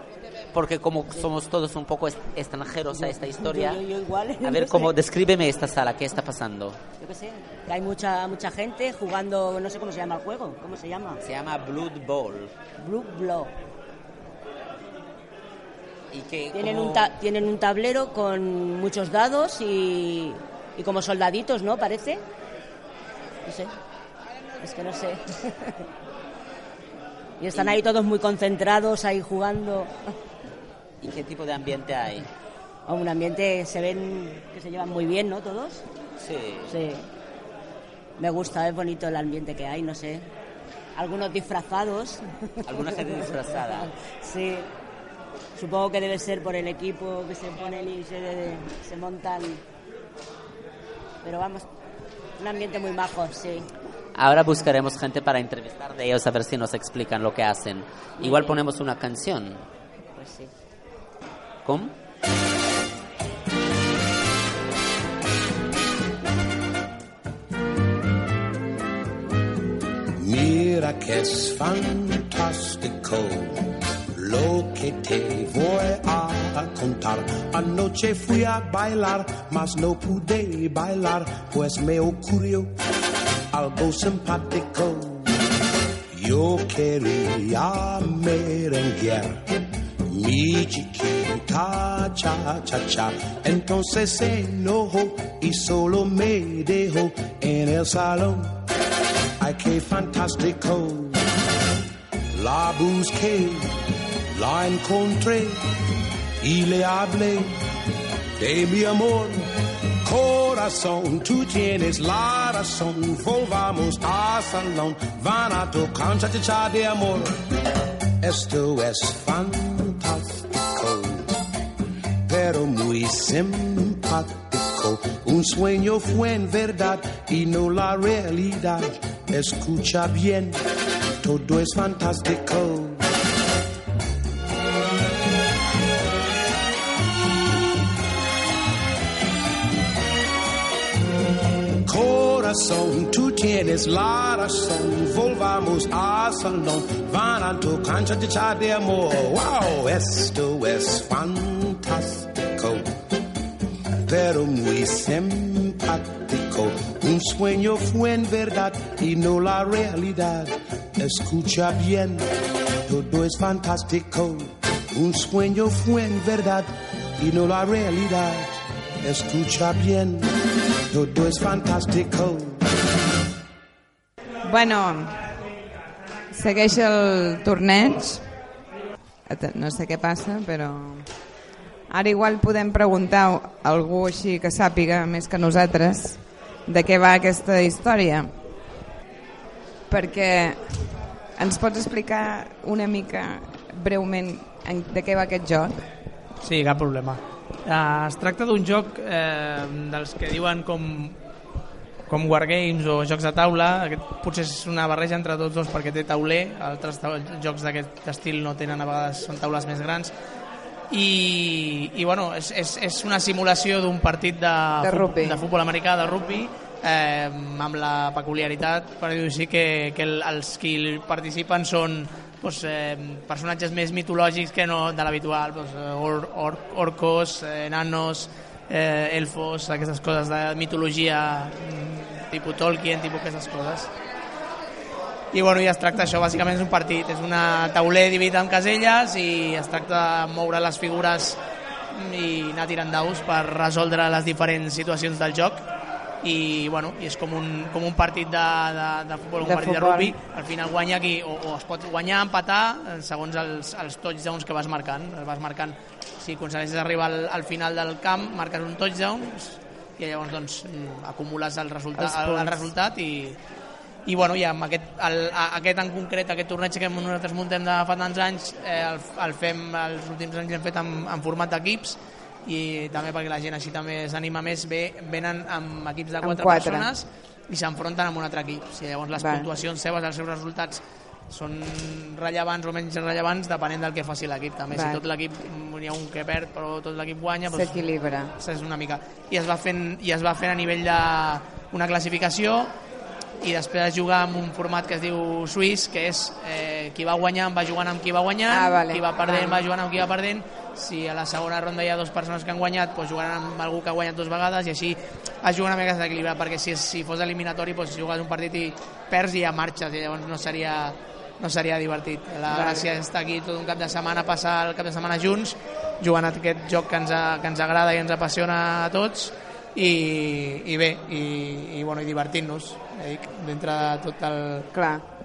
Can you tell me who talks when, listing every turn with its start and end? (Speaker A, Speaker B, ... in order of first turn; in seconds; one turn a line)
Speaker A: 0.5-3.8
Speaker B: 2.9-4.9
Speaker A: 4.4-6.8
Speaker B: 7.0-11.2
Speaker A: 11.2-12.5
Speaker B: 12.8-13.5
Speaker A: 16.1-17.1
Speaker B: 16.5-22.2
Speaker B: 23.4-23.7
Speaker B: 24.6-25.8
Speaker B: 27.4-29.9
Speaker A: 27.5-27.8
Speaker A: 31.0-32.3
Speaker B: 32.9-35.8
Speaker A: 36.2-36.7
Speaker B: 36.7-37.1
Speaker B: 38.2-40.3
Speaker B: 41.0-43.3
Speaker A: 42.6-43.9
Speaker B: 43.8-44.7
Speaker B: 45.5-49.6
Speaker B: 51.2-51.7
Speaker B: 52.4-53.7
Speaker A: 54.1-59.6
Speaker B: 58.2-58.6
Speaker B: 60.1-60.5
Speaker A: 61.6-61.9
Speaker C: 70.2-82.7
Speaker C: 83.5-85.5
Speaker C: 86.1-98.6
Speaker C: 99.4-101.3
Speaker C: 102.3-105.7
Speaker C: 106.4-107.6
Speaker C: 108.4-117.5
Speaker C: 118.2-121.3
Speaker C: 122.2-130.6
Speaker C: 131.2-133.1
Speaker C: 141.8-152.9
Speaker C: 154.0-170.3
Speaker C: 170.9-172.7
Speaker D: 174.4-175.3
Speaker D: 176.3-178.4
Speaker D: 179.3-181.1
Speaker D: 181.9-188.3
Speaker D: 189.9-190.6
Speaker D: 191.3-195.8
Speaker E: 196.4-201.2
Speaker E: 202.1-210.1
Speaker E: 210.9-233.9
Speaker D: 214.8-215.4
Speaker E: 235.3-241.4
Speaker E: 241.9-245.6
Speaker E: 246.2-263.4
Speaker D: 249.4-250.2
Speaker D: 262.0-262.7
Speaker E: 264.1-287.8
Speaker D: 276.2-276.9
Speaker D: 279.1-279.5
Speaker D: 284.7-285.0
Speaker D: 287.5-288.3
Speaker E: 288.4-292.7
Speaker E: 293.4-324.7
Speaker D: 298.5-299.6
Speaker D: 312.5-312.8
Speaker D: 324.7-325.1